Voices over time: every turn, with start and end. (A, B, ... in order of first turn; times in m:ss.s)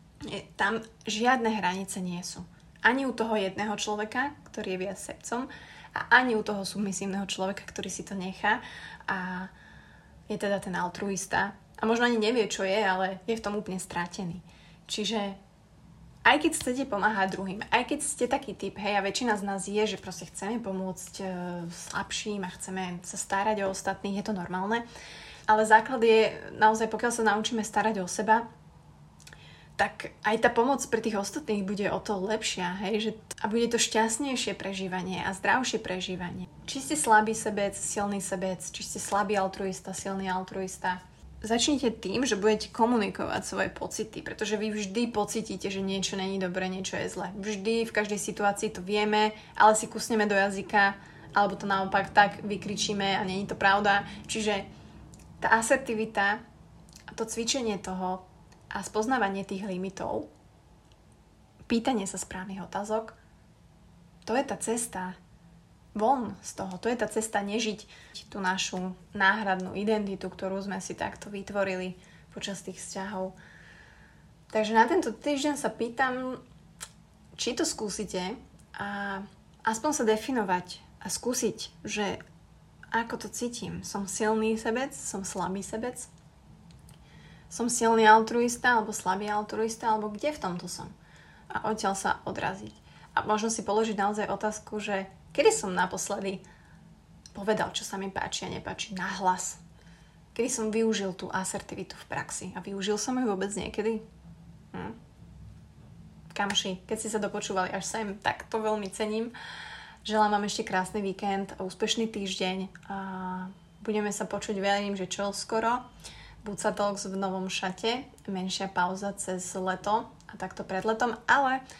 0:00.2-0:09.5 A
0:10.3-0:15.4 A
0:16.2-0:24.8 A
0:25.5-0:28.4 A
0:29.8-0:54.6 A
0:55.4-0:56.4 A
0:57.1-1:00.3 A
1:01.7-1:03.2 A
1:04.2-1:05.2 A
1:05.9-1:13.4 A
1:14.5-1:16.4 A
1:17.3-1:22.2 A
1:22.9-1:26.1 A
1:27.5-1:30.9 A
1:31.5-1:36.4 A
1:37.3-1:39.6 A
1:40.3-1:44.0 A
1:46.3-1:49.3 A
1:50.0-1:55.8 A
1:56.4-2:01.6 A